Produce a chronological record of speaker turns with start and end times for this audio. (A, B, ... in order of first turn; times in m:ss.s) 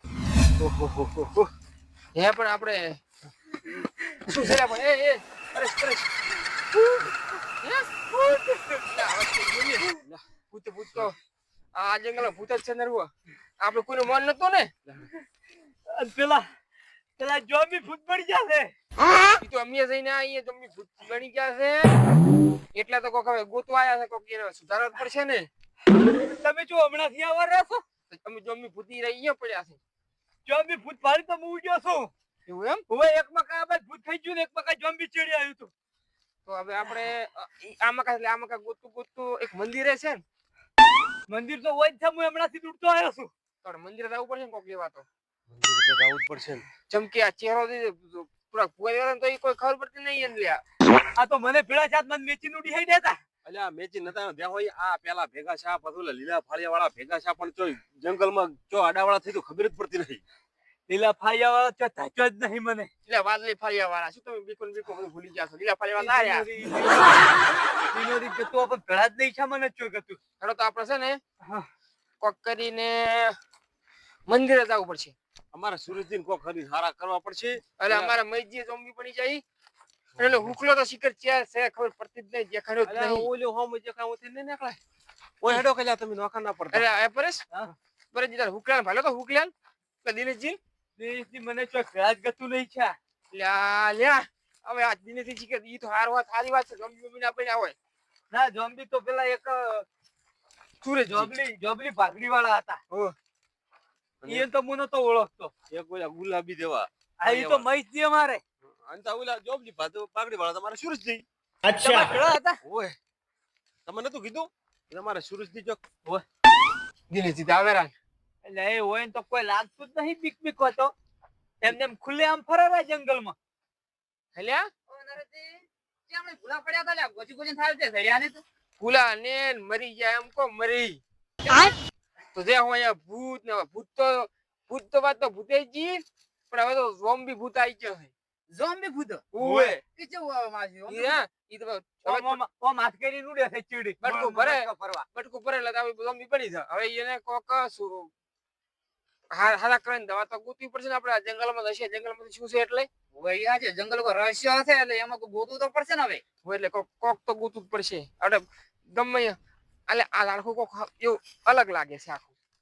0:00.6-0:01.5 A
0:02.2-0:03.0 B
0:04.3-0:06.0 B
0:06.8-0:07.1 A
0:07.6-0:07.9 B
0:08.2-0:08.7 C
0:08.9-0:09.9 B
0:09.9-0:10.2 A
0:10.5-0:11.2 B
0:11.8-0:14.7 B
0:15.9-0:16.5 C
0:17.2-0:18.7 C
0:19.2-0:22.0 B
0:22.7-0:25.5 B
0:26.2-0:27.8 C
0:28.1-0:29.8 B
0:30.5-0:32.1 C
0:32.5-0:32.8 B
0:32.9-0:35.7 C
0:36.5-0:40.2 B
0:41.3-0:43.3 C
0:43.6-0:45.1 B
0:45.5-0:46.7 A
0:46.9-0:50.6 B
0:51.2-0:53.2 C
0:53.4-1:00.2 A
1:00.9-1:02.9 C
1:03.1-1:06.5 B
1:06.0-1:07.4 C
1:07.9-1:10.2 C
1:10.4-1:11.2 B
1:12.2-1:13.4 B
1:14.3-1:15.2 B
1:15.5-1:18.2 A
1:17.8-1:19.4 B
1:20.2-1:20.4 A
1:20.2-1:23.3 B
1:22.8-1:24.8 A
1:25.4-1:26.8 A
1:26.7-1:27.5 B
1:28.1-1:29.5 B
1:30.0-1:30.6 B
1:31.0-1:33.0 C
1:33.3-1:37.8 B
1:38.3-1:39.9 C
1:40.8-1:41.3 B
1:41.1-1:42.8 C
1:44.2-1:45.5 C
1:45.7-1:47.7 A
1:47.2-1:48.4 C
1:48.7-1:51.2 A
1:51.7-1:52.0 D
1:51.7-1:52.6 C
1:52.6-1:53.0 A
1:53.9-1:55.8 A
1:57.1-1:57.9 B
1:58.4-2:00.9 C
2:01.6-2:03.4 C
2:04.4-2:04.7 B
2:04.9-2:08.4 D
2:08.8-2:11.0 B
2:11.4-2:11.8 D
2:12.3-2:18.1 B
2:18.5-2:19.2 D
2:19.3-2:19.8 B
2:19.4-2:19.8 C
2:19.8-2:21.2 D
2:20.9-2:22.4 B
2:22.0-2:25.0 C
2:24.0-2:28.1 B
2:29.3-2:32.9 B
2:33.2-2:36.2 D
2:36.4-2:39.4 B
2:39.9-2:42.3 B